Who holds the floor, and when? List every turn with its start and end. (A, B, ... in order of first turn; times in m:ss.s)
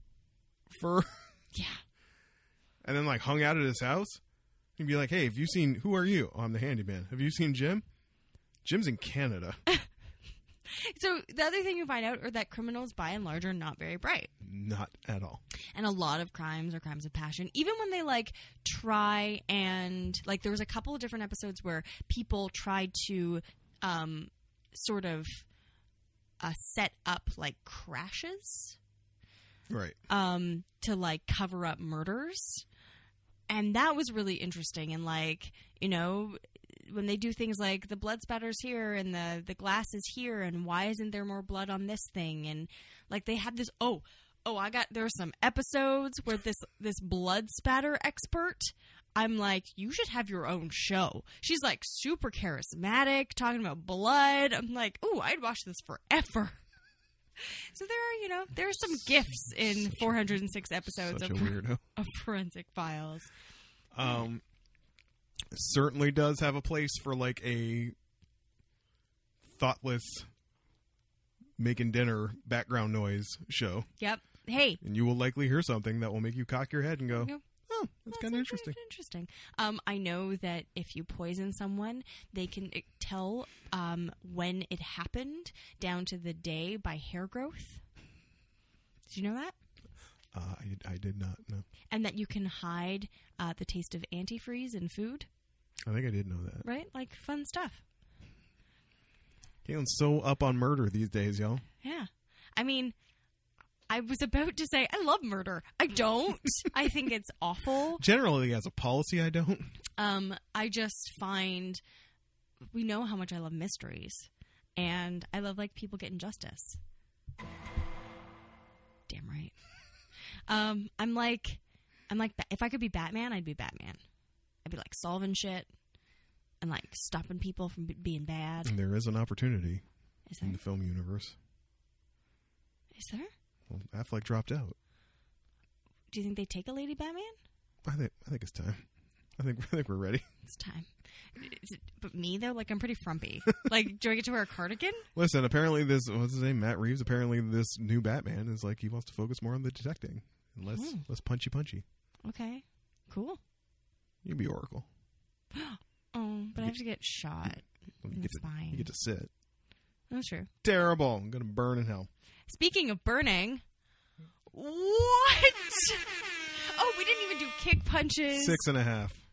0:00.7-0:01.2 A
0:01.5-0:01.8 B
0:02.8-0:04.2 A
0:04.8-0:07.8 A
0:08.6-0:09.6 A
0:10.7-0:14.3 B
0:14.4-0:15.4 A
0:15.7-0:25.4 B
0:26.4-0:28.8 B
0:29.7-0:30.0 A
0:30.1-0:32.6 B
0:33.5-0:56.6 B
0:57.4-1:03.3 B
1:01.0-1:01.8 A
1:03.9-1:04.4 A
1:05.5-1:08.0 A
1:09.4-1:10.3 A
1:11.6-1:13.9 A
1:14.0-1:14.8 B
1:14.8-1:18.8 A
1:17.1-1:17.4 B
1:18.1-1:27.8 B
1:29.1-1:29.6 B
1:30.3-1:31.7 A
1:31.9-1:35.3 B
1:35.9-1:36.6 A
1:36.6-1:37.8 B
1:39.6-1:41.6 A
1:41.8-1:42.9 B
1:43.9-1:48.0 B
1:48.0-1:49.8 A
1:50.0-1:51.8 B
1:52.7-1:56.8 B
1:59.1-1:59.6 B
2:00.5-2:04.0 B
2:04.6-2:05.7 B
2:06.6-2:08.7 B
2:08.6-2:09.8 A
2:10.3-2:10.6 B
2:10.4-2:11.4 A
2:12.9-2:13.3 B
2:13.7-2:14.8 A
2:16.1-2:17.4 B
2:17.8-2:18.9 A
2:19.4-2:20.2 A
2:20.4-2:25.1 B
2:25.2-2:31.8 A
2:30.7-2:31.0 B
2:32.2-2:33.4 B
2:34.2-2:34.9 A
2:35.5-2:38.9 B
2:38.0-2:39.3 A
2:40.1-2:40.5 B
2:40.6-2:42.1 A
2:42.5-2:43.6 B
2:44.5-2:48.6 B
2:48.3-2:49.2 A